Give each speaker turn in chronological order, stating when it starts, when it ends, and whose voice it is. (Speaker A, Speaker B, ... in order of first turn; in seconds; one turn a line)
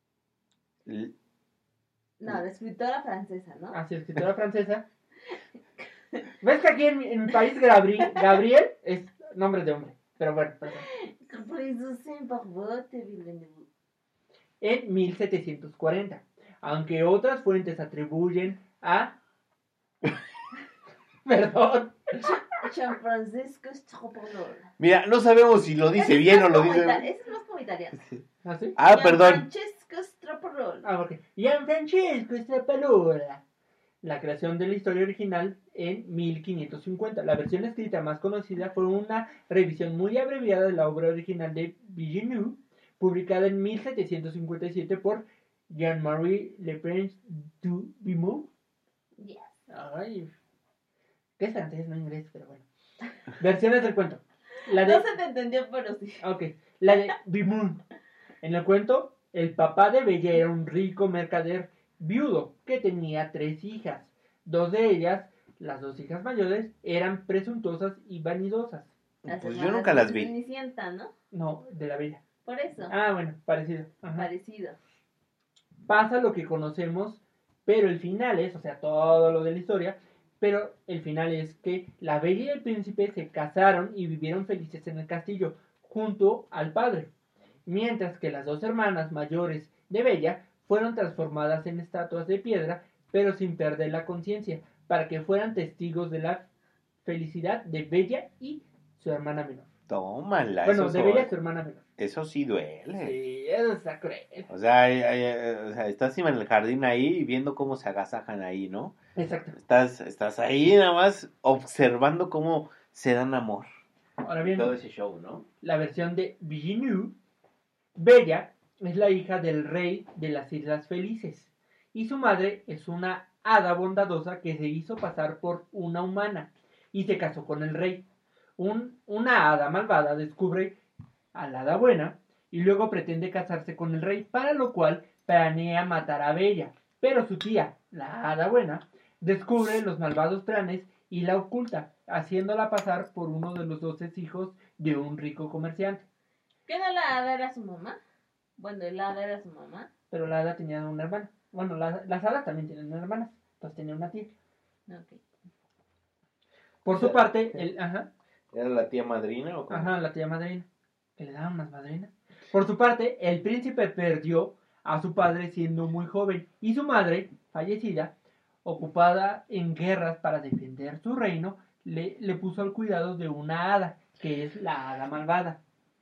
Speaker A: 0.9-1.1
Speaker B: 2.2-3.8
Speaker C: 3.7-4.9
Speaker B: 5.8-6.2
Speaker C: 6.4-10.9
Speaker B: 10.9-13.7
Speaker C: 14.6-19.2
Speaker C: 21.2-22.3
Speaker B: 22.2-24.7
Speaker A: 24.8-27.1
Speaker B: 25.9-28.0
Speaker C: 28.4-28.8
Speaker A: 28.8-29.4
Speaker B: 28.9-30.9
Speaker C: 30.8-33.4
Speaker C: 34.0-48.5
Speaker B: 49.2-49.5
Speaker C: 49.7-50.3
Speaker C: 51.4-52.7
Speaker C: 53.3-55.1
Speaker B: 54.8-56.2
Speaker C: 56.2-57.8
Speaker C: 58.4-68.9
Speaker A: 69.2-70.3
Speaker B: 69.3-71.1
Speaker C: 71.3-72.2
Speaker B: 72.5-72.9
Speaker C: 72.9-74.3
Speaker B: 74.2-74.8
Speaker C: 75.9-87.1
Speaker C: 87.7-96.5
Speaker C: 97.0-99.7
Speaker A: 99.9-101.3
Speaker C: 100.7-101.8
Speaker A: 102.0-103.2
Speaker C: 102.9-104.5
Speaker A: 104.5-109.0
Speaker C: 109.2-109.6
Speaker A: 109.5-113.7
Speaker C: 114.2-114.8
Speaker A: 114.5-115.5
Speaker C: 115.6-117.1
Speaker C: 118.0-128.1
Speaker C: 128.6-130.8
Speaker C: 131.3-146.1
Speaker B: 146.7-148.0
Speaker B: 148.6-149.9
Speaker C: 150.1-154.3
Speaker B: 154.9-155.2
Speaker C: 156.8-158.1
Speaker A: 156.9-157.7
Speaker A: 158.5-160.0
Speaker C: 159.7-175.6